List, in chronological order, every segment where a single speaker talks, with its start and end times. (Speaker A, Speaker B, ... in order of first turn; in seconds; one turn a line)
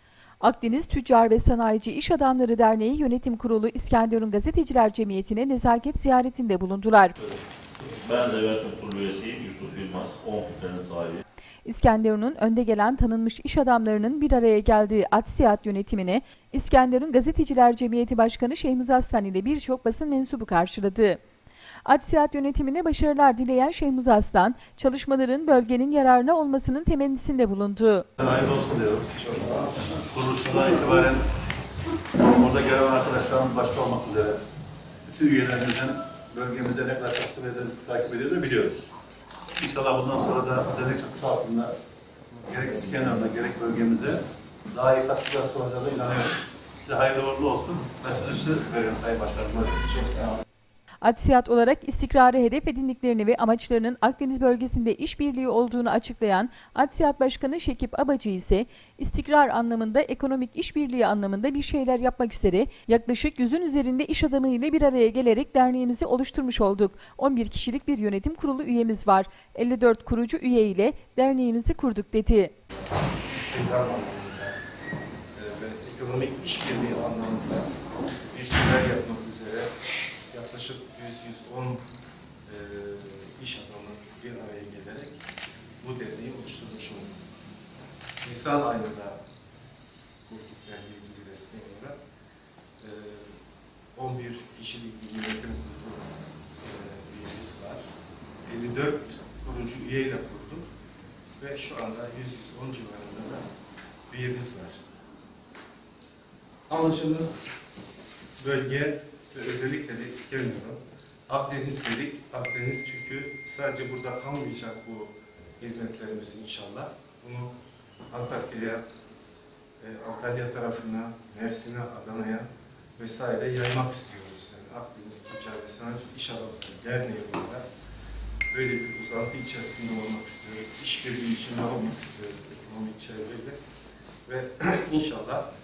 Speaker A: 0.4-7.2
Speaker B: 7.2-11.2
Speaker A: 11.7-21.2
Speaker A: 21.9-28.1
Speaker C: 28.2-29.2
Speaker D: 29.1-29.8
Speaker C: 29.9-31.2
Speaker C: 32.1-34.4
Speaker C: 35.0-38.9
Speaker C: 39.5-41.7
Speaker C: 42.4-50.4
Speaker A: 51.0-72.5
Speaker D: 73.3-74.6
Speaker D: 75.3-77.7
Speaker D: 78.3-79.7
Speaker D: 80.3-81.8
Speaker D: 82.5-85.2
Speaker D: 85.8-87.2
Speaker D: 88.2-89.2
Speaker D: 90.2-92.0
Speaker D: 92.8-93.3
Speaker D: 94.0-97.8
Speaker D: 98.5-100.7
Speaker D: 101.4-103.5
Speaker D: 104.1-104.8
Speaker D: 106.7-107.5
Speaker D: 108.4-117.5
Speaker D: 118.1-118.8
Speaker D: 119.8-122.5
Speaker D: 123.0-127.7
Speaker D: 128.5-133.6
Speaker D: 134.3-135.5